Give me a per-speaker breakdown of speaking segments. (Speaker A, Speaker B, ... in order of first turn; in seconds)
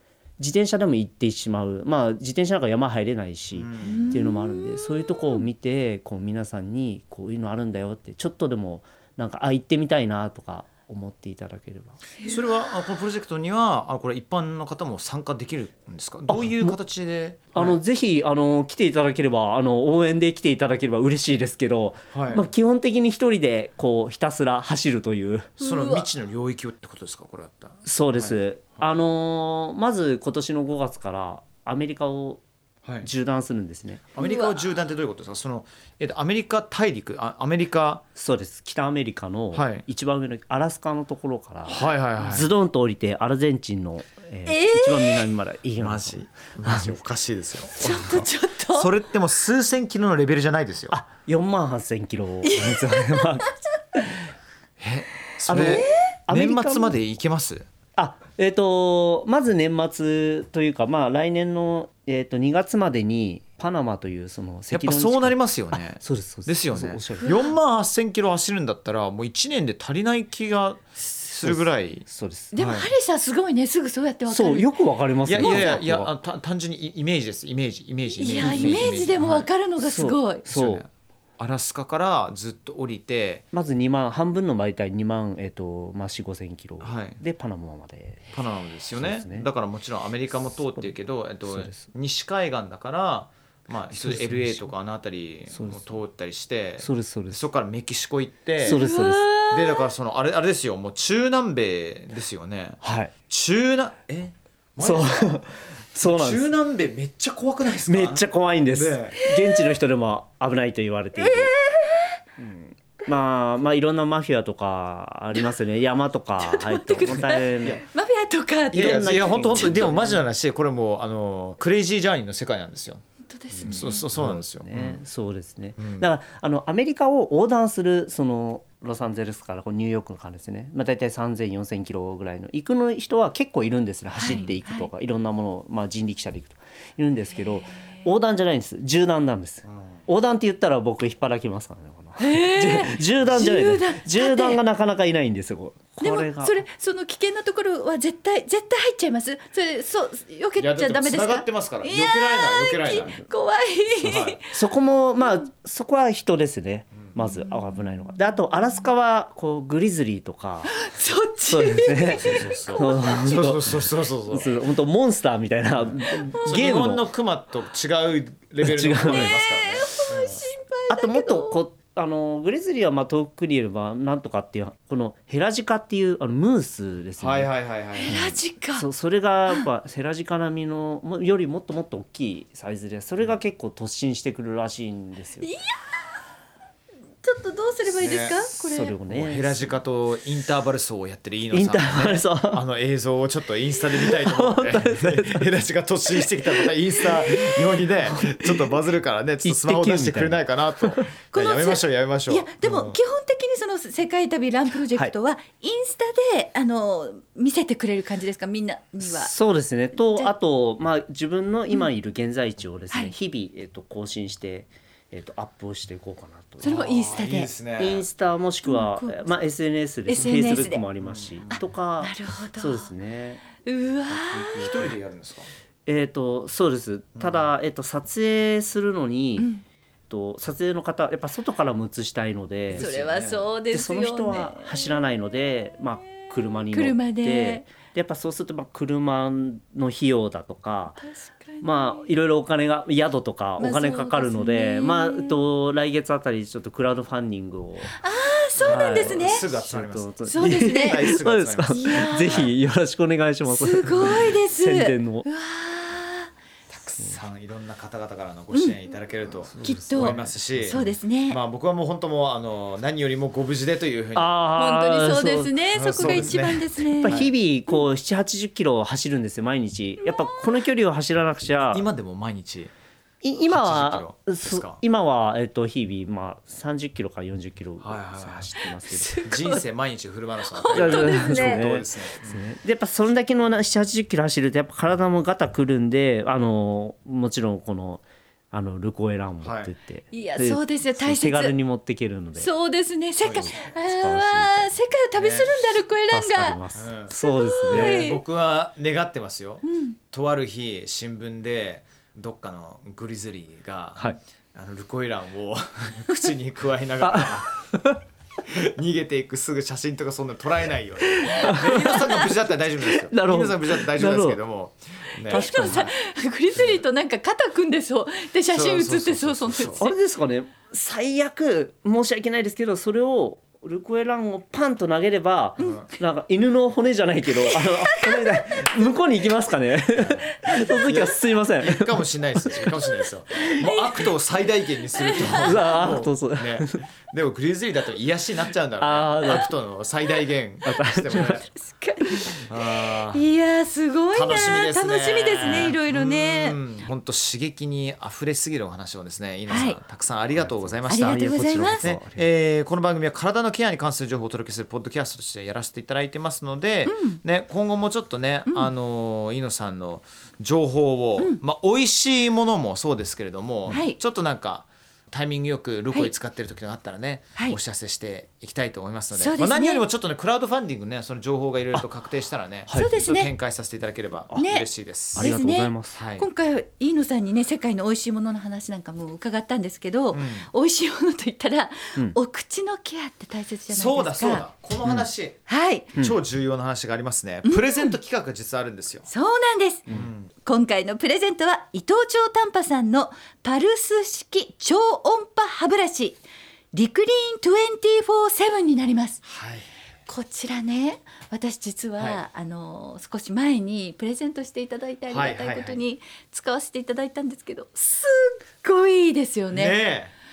Speaker A: 0.4-12.0, 16.3-16.8, 17.6-25.6, 27.9-32.4, 33.0-34.1, 38.1-47.0, 50.9-54.2, 55.5-57.0, 58.0-67.4, 71.4-72.5, 74.3-76.1, 78.3-79.1, 79.8-80.8, 83.5-88.3, 89.0-89.5, 91.5-91.9, 93.9-94.7, 95.5-96.0, 96.8-97.4, 98.6-99.3, 102.8-103.1, 104.8-106.5, 107.9-111.5, 112.4-117.8, 118.7-120.2, 123.6-146.6, 154.5-160.7, 161.5-167.1, 168.6-169.4, 170.9-177.5, 178.0-185.5, 188.6-189.7, 191.5-192.6, 193.9-195.5, 196.1-198.8, 199.4-201.1, 209.0-216.8, 217.8-223.4, 224.1-224.9, 225.9-229.5, 230.1-232.9, 233.7-241.0, 241.6-247.9, 248.7-255.3, 259.5-260.9, 264.1-266.4, 267.0-271.9, 273.2-279.2, 280.7-292.5, 293.3-294.8, 296.1-298.0, 307.0-308.0, 311.2-314.4, 315.3-315.9, 319.8-332.9, 335.2-336.8, 338.8-339.5, 340.6-341.4, 350.3-352.3, 375.1-376.0
Speaker B: 3.5-4.2, 12.2-17.8, 22.1-22.4, 25.6-28.9, 34.1-38.0, 39.5-39.9, 41.7-42.5, 45.8-51.0, 54.8-57.7, 64.7-72.9, 75.3-79.5, 80.4-83.4, 86.8-87.2, 88.3-98.8, 99.4-105.4, 106.0-109.2, 118.7-123.0, 123.6-125.0, 125.8-126.1, 134.3-134.5, 150.6-153.2, 154.0-154.4, 162.1-164.5, 165.8-170.4, 177.2-178.2, 187.8-203.0, 216.6-218.1, 221.0-221.6, 224.5-225.5, 227.2-227.5, 232.7-233.5, 248.6-252.5, 256.7-264.4, 265.7-267.3, 271.7-272.7, 273.4-274.8, 277.8-278.5, 279.2-282.4, 289.4-289.7, 293.2-293.5, 295.2-295.6, 296.8-297.1, 297.7-307.5, 308.5-315.9, 318.5-319.9, 325.6-325.9, 330.0-330.3, 330.8-341.5, 342.5-343.3, 344.1-375.4, 375.9-376.3, 380.1-380.5, 383.7-385.4, 386.0-389.1, 389.9-390.3, 399.2-399.7, 405.1-405.8, 409.5-410.1
Speaker C: 3.8-5.4, 25.6-26.1, 34.2-34.6, 44.5-45.2, 47.8-48.9, 52.4-53.5, 55.6-56.1, 67.2-67.5, 72.5-74.7, 75.4-75.8, 78.2-80.5, 98.6-99.8, 109.2-109.7, 111.2-112.0, 116.4-119.7, 123.3-124.1, 134.2-134.9, 137.3-138.1, 142.2-144.6, 146.0-154.4, 160.7-163.3, 169.0-171.6, 178.0-178.9, 185.4-185.8, 187.2-188.9, 201.3-209.3, 216.6-217.5, 218.6-219.3, 220.1-220.8, 222.0-222.9, 223.6-224.7, 232.8-234.9, 236.7-237.7, 241.0-242.1, 243.6-245.4, 247.9-249.5, 250.3-251.1, 251.7-252.5, 253.5-256.3, 259.6-261.4, 264.5-267.2, 270.0-270.6, 278.6-279.6, 280.5-281.7, 290.1-291.6, 292.4-296.6, 297.2-298.2, 299.6-300.0, 311.4-312.2, 315.3-319.9, 325.6-325.9, 327.4-328.7, 330.3-330.9, 333.5-334.1, 335.0-335.8, 341.5-346.6, 349.5-349.8, 350.9-351.9, 356.9-357.2, 363.7-364.0, 369.1-369.9, 372.7-373.3, 374.3-384.5, 385.5-385.9, 387.4-387.9, 389.1-389.9, 390.4-396.2, 396.7-399.2, 400.1-409.8